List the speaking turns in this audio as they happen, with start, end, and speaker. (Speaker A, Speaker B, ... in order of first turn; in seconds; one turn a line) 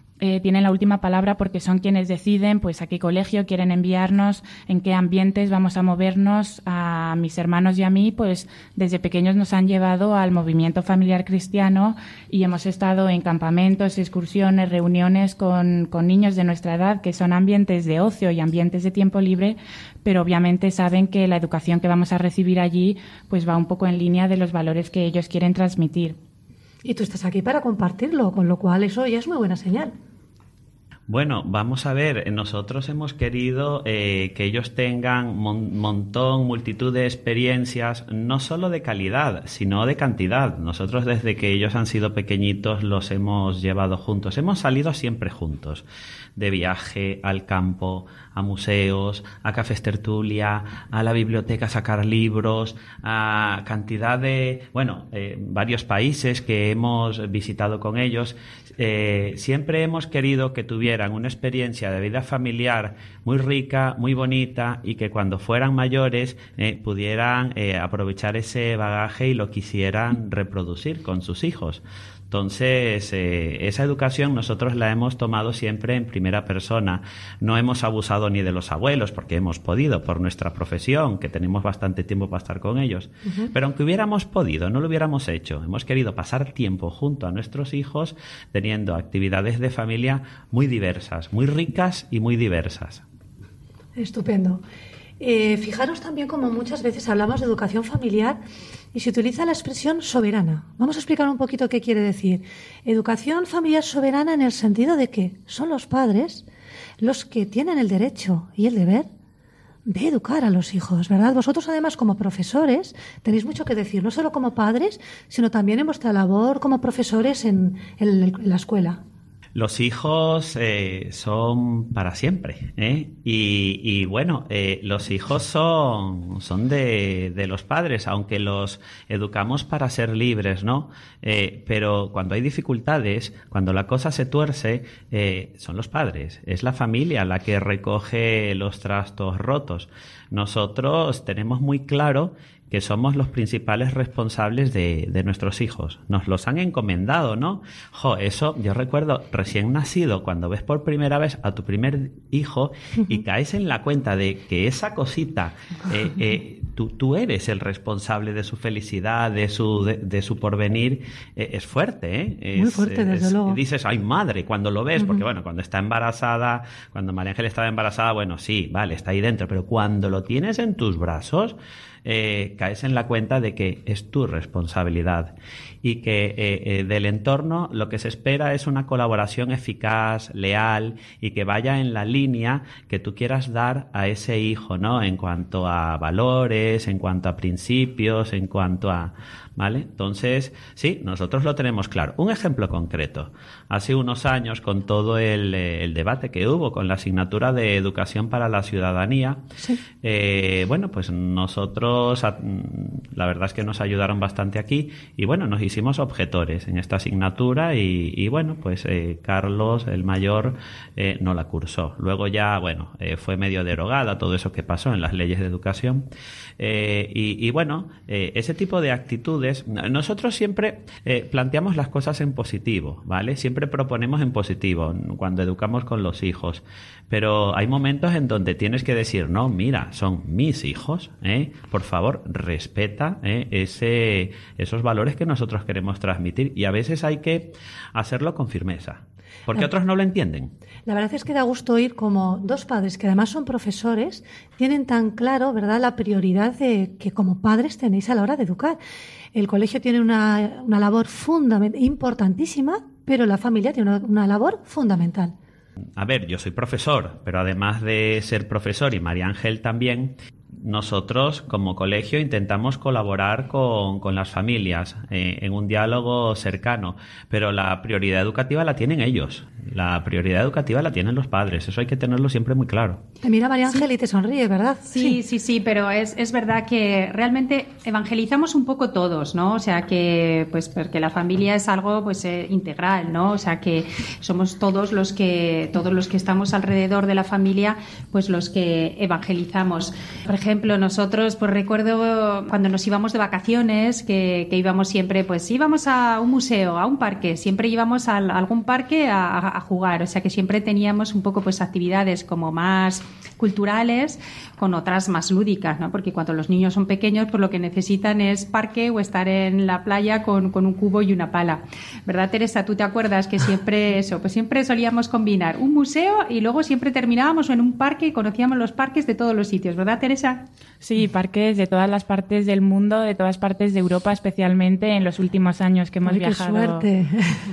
Speaker A: 0.2-26.2
Speaker B: 26.8-29.9
Speaker C: 31.1-45.9
Speaker C: 46.4-93.0
Speaker B: 83.3-83.5
Speaker B: 94.0-94.6
Speaker B: 95.2-98.4
Speaker B: 98.9-106.5
Speaker B: 107.0-109.1
Speaker B: 109.9-119.0
Speaker C: 119.5-199.4
Speaker B: 162.6-163.6
Speaker B: 165.0-165.2
Speaker C: 200.0-216.1
Speaker C: 216.6-240.5
Speaker B: 240.9-248.8
Speaker B: 249.3-255.3
Speaker C: 256.0-273.0
Speaker B: 273.2-275.2
Speaker D: 274.9-320.4
Speaker A: 320.8-326.9
Speaker B: 326.1-327.4